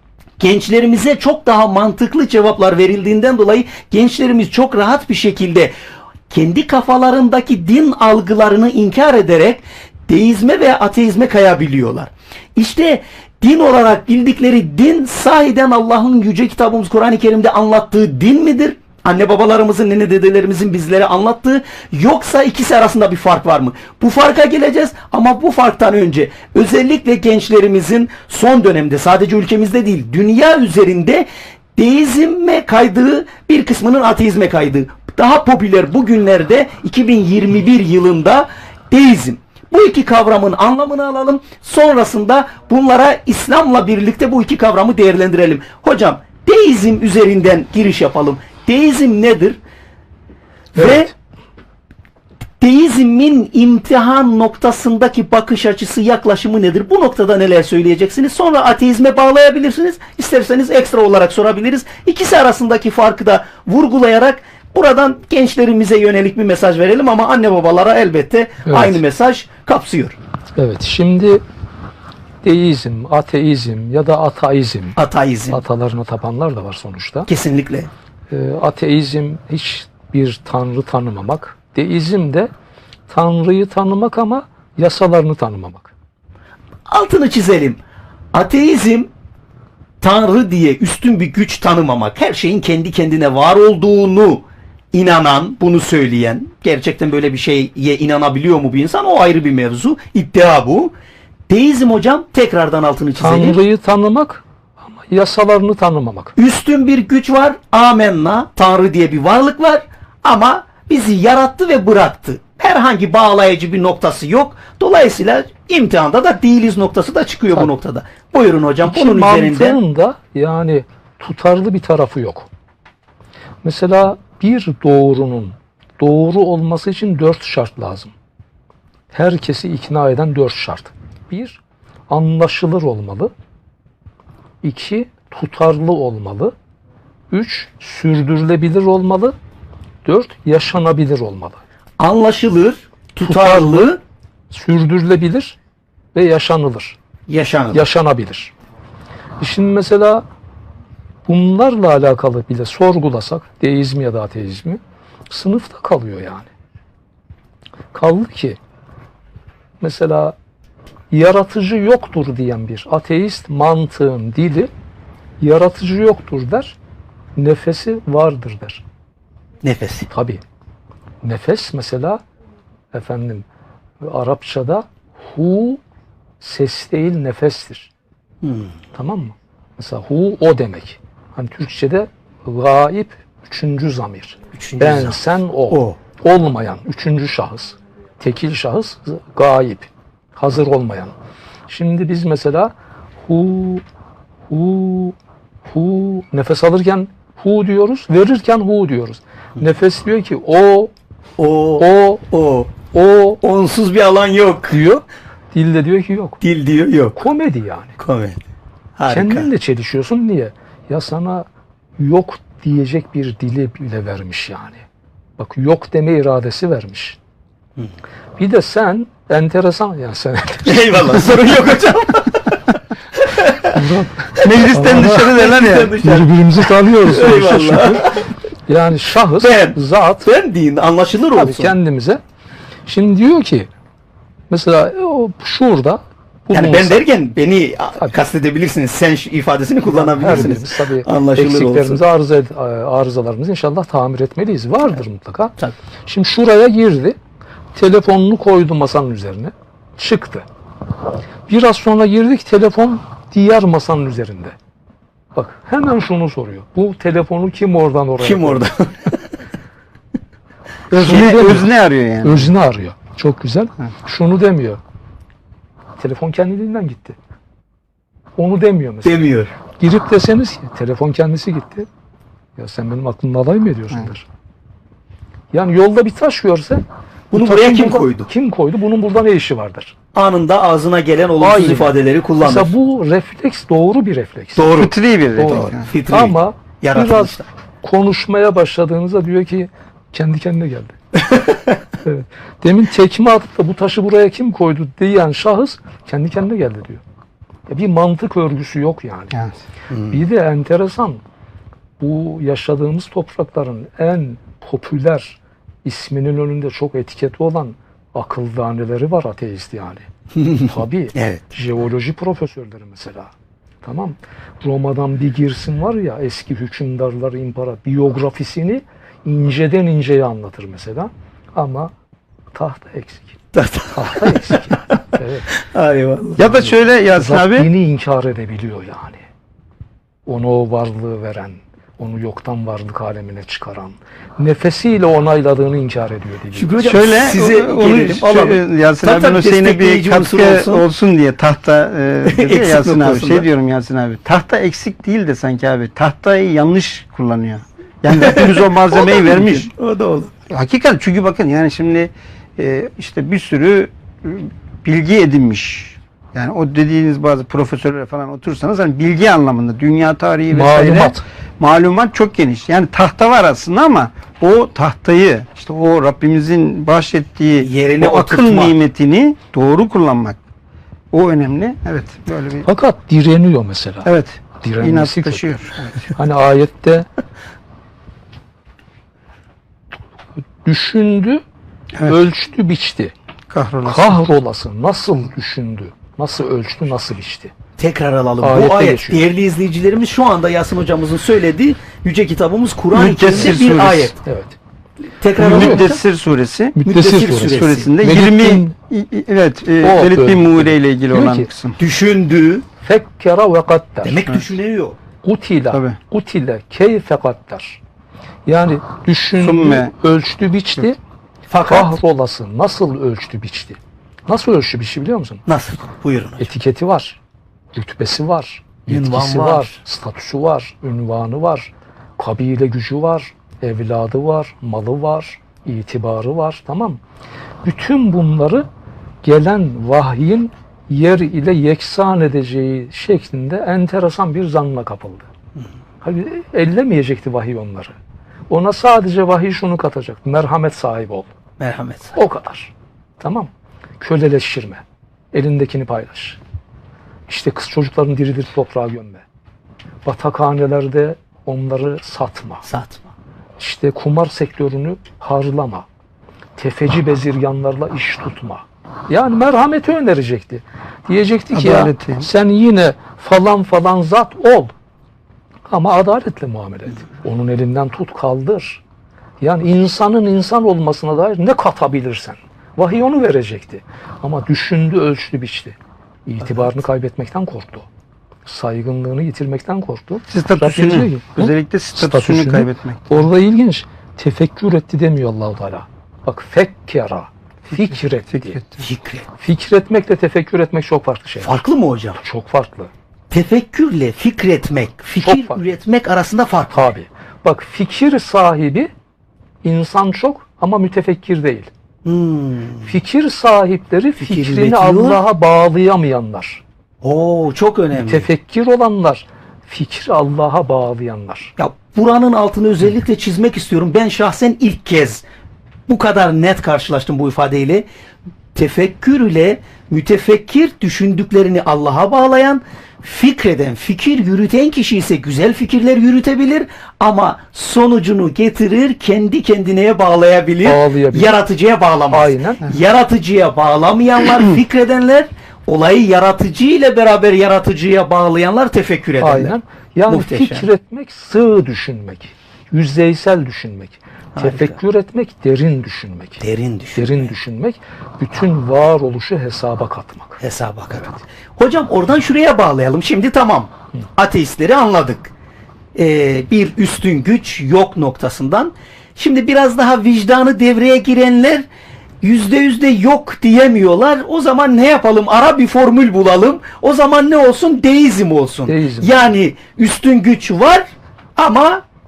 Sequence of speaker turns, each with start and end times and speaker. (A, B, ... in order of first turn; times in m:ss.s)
0:00.4-0:05.7 A
0:06.3-0:49.6 A
0:50.7-0:51.1 A
0:50.8-0:51.0 B
0:52.6-1:10.2 A
1:08.7-1:09.0 B
1:10.6-1:11.4 B
1:12.4-1:15.0 B
1:15.0-1:15.6 A
1:15.5-1:17.3 B
1:17.3-1:17.9 A
1:18.3-1:22.5 B
1:23.1-1:25.9 B
1:26.9-1:27.8 A
1:28.3-1:29.1 A
1:30.0-1:40.9 A
1:41.5-1:43.6 A
1:43.2-1:46.4 B
1:46.4-1:59.8 A
1:58.8-2:02.5 B
2:03.6-2:08.1 B
2:09.1-2:13.3 B
2:14.6-2:16.5 B
2:17.3-2:19.4 B
2:20.0-2:21.6 B
2:22.0-2:24.0 A
2:23.2-2:23.9 B
2:24.5-2:25.6 B
2:26.1-2:27.0 B
2:27.3-2:27.9 A
2:27.7-2:28.5 B
2:29.4-2:30.2 B
2:31.3-2:36.5 B
2:37.9-2:38.6 B
2:39.8-2:40.4 B
2:41.1-2:44.7 B
2:45.4-2:46.8 B
2:47.4-2:48.8 B
2:49.6-2:50.1 A
2:50.1-2:50.4 B
2:51.2-2:52.2 B
2:52.9-2:53.5 B
2:54.0-2:55.8 B
2:56.4-2:57.9 B
2:58.4-2:58.8 A
2:58.9-3:11.1 B
3:04.5-3:05.2 A
3:05.7-3:06.0 A
3:11.7-3:13.8 B
3:14.5-3:15.2 B
3:15.7-3:20.9 B
3:21.4-3:22.7 A
3:21.8-3:22.2 B
3:22.8-3:23.4 B
3:23.4-3:24.8 A
3:24.7-3:26.4 B
3:26.4-3:27.2 A
3:27.2-3:28.0 B
3:28.0-3:28.4 A
3:29.0-3:29.5 A
3:29.1-3:34.8 B
3:35.4-3:37.2 B
3:38.4-3:41.4 B
3:40.6-3:42.6 A
3:43.2-3:48.3 A
3:43.7-3:50.3 B
3:44.4-3:46.0 C
3:49.4-3:51.8 A
3:51.3-3:52.2 B
3:52.9-3:53.7 B
3:54.5-3:57.0 B
3:56.5-4:02.0 A
3:59.9-4:07.2 B
4:07.7-4:10.5 B
4:11.5-4:14.6 B
4:15.4-4:18.7 B
4:18.2-4:19.2 A
4:20.9-4:22.5 C
4:20.9-4:21.7 B
4:22.2-4:24.8 B
4:26.0-4:27.2 B
4:28.4-4:31.9 B
4:29.0-4:29.5 A
4:32.6-4:34.2 B
4:35.5-4:40.0 B
4:37.3-4:38.3 A
4:40.1-4:42.7 A
4:41.4-4:51.0 B
4:44.6-4:44.9 A
4:44.8-4:45.9 C
4:45.5-4:47.5 A
4:51.2-4:51.8 A
4:52.0-4:57.0 B
4:57.7-4:59.3 B
5:00.1-5:01.2 B
5:02.0-5:10.1 B
5:10.4-5:11.4 A
5:10.6-5:21.9 B
5:22.5-5:23.4 B
5:23.5-5:26.4 A
5:23.9-5:25.5 B
5:26.4-5:27.7 C
5:26.5-5:29.2 B
5:30.3-5:37.0 B
5:36.5-5:40.8 A
5:36.8-5:49.7 C
5:42.2-5:43.5 A
5:48.1-5:50.3 A
5:50.5-6:10.4 C
6:00.5-6:01.2 B
6:07.6-6:08.8 A
6:11.1-6:12.7 C
6:12.6-6:14.1 B
6:14.0-6:15.9 C
6:14.6-6:15.6 B
6:16.1-6:17.1 B
6:20.6-6:21.4 B
6:22.0-6:23.1 B
6:23.5-6:24.2 C
6:23.8-6:27.5 B
6:27.8-6:34.2 A
6:28.4-6:29.3 B
6:32.9-6:34.1 C
6:34.2-6:34.6 B
6:35.2-6:36.0 A
6:35.4-6:35.8 B
6:35.4-6:36.8 C
6:36.8-6:38.7 B
6:36.8-6:37.9 A
6:37.4-6:41.8 C
6:39.8-6:41.5 B
6:41.8-6:42.7 A
6:42.8-6:44.2 B
6:44.0-6:45.0 A
6:45.2-6:47.8 B
6:45.7-6:46.0 C
6:48.5-6:51.0 B
6:49.4-6:49.9 C
6:51.5-6:51.9 A
6:51.6-6:55.4 B
6:55.5-6:56.5 A
6:56.4-6:57.2 B
6:57.7-7:07.0 B
6:58.9-6:59.8 A
7:07.6-7:08.7 B
7:09.2-7:15.3 B
7:16.0-7:18.0 B
7:18.5-7:21.3 B
7:21.6-7:22.2 A
7:22.2-7:26.4 B
7:27.3-7:29.2 B
7:30.0-7:32.6 B
7:32.6-7:33.1 A
7:33.6-7:35.9 B
7:36.6-7:44.7 B
7:41.5-7:42.3 C
7:45.6-7:48.8 B
7:49.4-7:57.9 B
7:58.5-8:08.6 B
8:00.3-8:03.2 C
8:08.3-8:08.8 C
8:08.8-8:09.3 A
8:09.4-8:11.6 B
8:11.4-8:12.2 A
8:12.2-8:12.9 B
8:13.3-8:16.8 A
8:15.2-8:15.6 B
8:16.7-8:18.9 B
8:19.6-8:21.7 B
8:22.0-8:22.9 A
8:22.8-8:26.6 B
8:24.2-8:25.2 A
8:27.0-8:28.3 A
8:27.9-8:31.5 B
8:31.6-8:35.2 A
8:35.9-8:37.9 A
8:38.6-8:59.6 A
8:50.6-8:51.4 B
8:52.1-8:52.6 B
8:59.2-9:06.4 B
9:00.1-9:00.7 A
9:04.4-9:04.8 A
9:06.4-9:07.3 A
9:07.0-9:10.4 B
9:10.4-9:15.3 A
9:16.0-9:21.6 A
9:22.2-9:30.8 A
9:28.7-9:29.2 B
9:31.4-9:31.8 A